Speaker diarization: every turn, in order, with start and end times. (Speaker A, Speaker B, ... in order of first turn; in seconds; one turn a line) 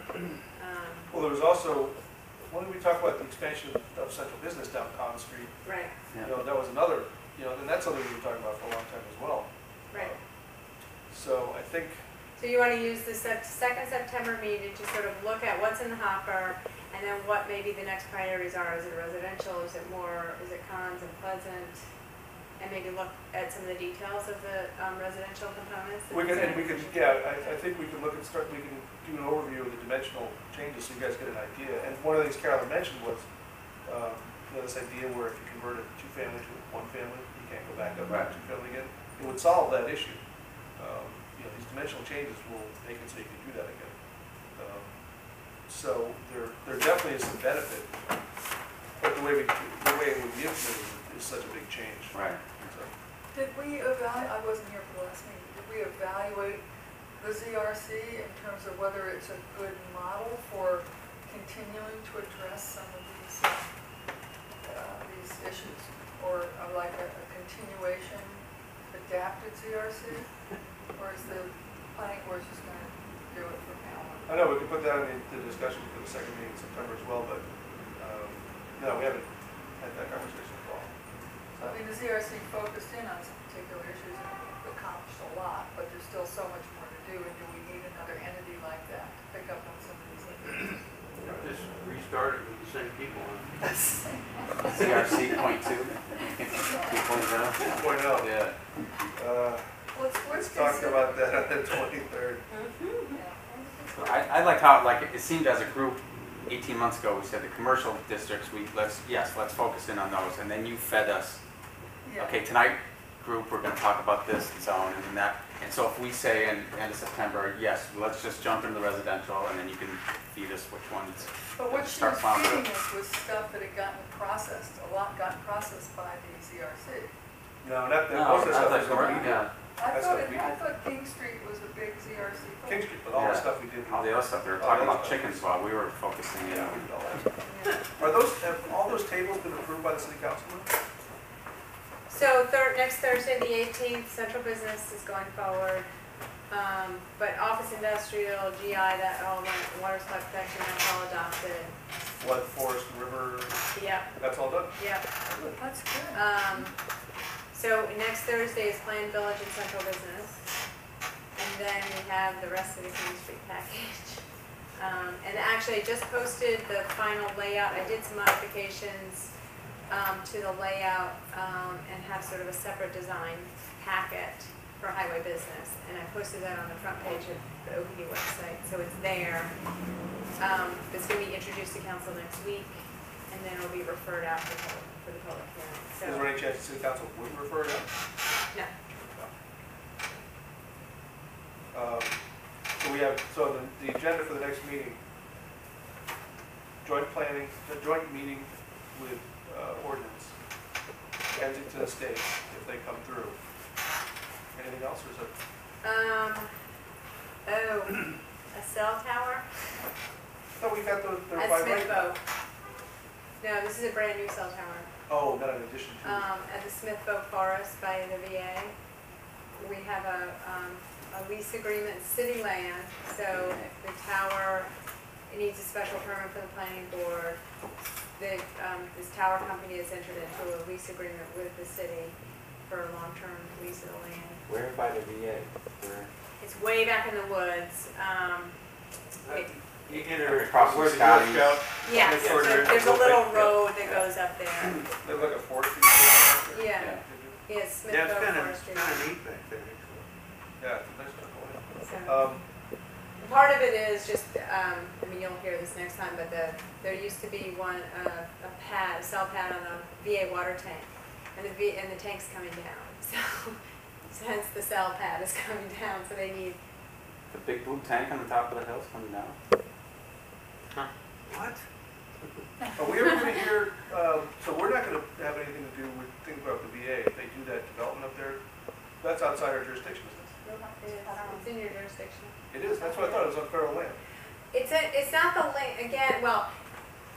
Speaker A: 0.5-1.1
Speaker B: 1.1-2.0
Speaker B: 2.5-5.5
Speaker A: 5.6-5.9
Speaker B: 6.2-10.2
Speaker B: 11.1-12.0
Speaker A: 12.4-21.8
Speaker A: 22.6-27.5
Speaker B: 26.1-33.2
Speaker C: 26.3-26.6
Speaker B: 33.9-40.2
Speaker C: 38.0-38.3
Speaker B: 40.8-44.0
Speaker B: 44.5-44.9
Speaker B: 45.7-48.1
Speaker B: 49.0-52.9
Speaker C: 52.1-52.7
Speaker D: 53.3-56.6
Speaker D: 57.2-63.7
Speaker D: 64.6-70.3
Speaker D: 70.9-74.3
Speaker B: 74.3-77.4
Speaker B: 78.0-80.9
Speaker D: 81.6-90.8
Speaker B: 91.2-91.5
Speaker E: 91.3-93.5
Speaker D: 93.6-94.8
Speaker C: 94.7-98.6
Speaker B: 97.7-98.3
Speaker B: 99.2-99.7
Speaker D: 99.9-101.6
Speaker B: 100.3-102.4
Speaker A: 102.5-103.2
Speaker D: 103.1-104.5
Speaker C: 103.9-111.4
Speaker D: 112.0-112.4
Speaker C: 112.1-122.7
Speaker D: 121.5-127.1
Speaker B: 127.6-130.5
Speaker C: 128.1-129.5
Speaker D: 128.8-132.9
Speaker B: 132.6-135.4
Speaker C: 133.1-136.8
Speaker B: 136.4-137.2
Speaker D: 137.1-137.7
Speaker B: 138.0-140.7
Speaker A: 142.1-145.9
Speaker A: 146.5-151.7
Speaker B: 152.2-153.6
Speaker A: 153.7-155.0
Speaker B: 154.2-154.7
Speaker B: 155.3-155.5
Speaker D: 155.5-156.3
Speaker A: 156.1-156.7
Speaker A: 157.5-160.4
Speaker A: 161.3-164.2
Speaker A: 164.8-169.3
Speaker A: 169.9-179.5
Speaker A: 180.4-186.3
Speaker B: 186.0-187.9
Speaker B: 191.7-192.2
Speaker B: 192.8-195.0
Speaker B: 196.8-200.3
Speaker B: 201.3-203.4
Speaker B: 204.5-205.3
Speaker A: 205.8-206.5
Speaker A: 207.4-209.4
Speaker B: 210.6-212.1
Speaker A: 211.3-212.2
Speaker A: 213.4-214.9
Speaker B: 215.1-216.2
Speaker A: 216.0-218.7
Speaker A: 219.6-224.7
Speaker C: 223.3-223.7
Speaker A: 225.3-227.4
Speaker A: 228.2-234.4
Speaker C: 234.5-236.1
Speaker E: 234.6-234.9
Speaker A: 236.4-238.5
Speaker E: 239.2-243.7
Speaker A: 239.3-240.1
Speaker C: 240.2-242.9
Speaker A: 241.8-244.8
Speaker C: 243.8-244.1
Speaker B: 245.0-247.4
Speaker A: 246.5-249.0
Speaker E: 247.9-250.0
Speaker B: 250.6-252.4
Speaker A: 251.8-252.3
Speaker A: 253.2-266.6
Speaker C: 267.3-269.4
Speaker B: 272.8-278.4
Speaker B: 279.0-280.3
Speaker D: 280.4-281.5
Speaker A: 280.8-282.3
Speaker B: 282.5-284.0
Speaker D: 282.8-283.3
Speaker A: 284.5-286.5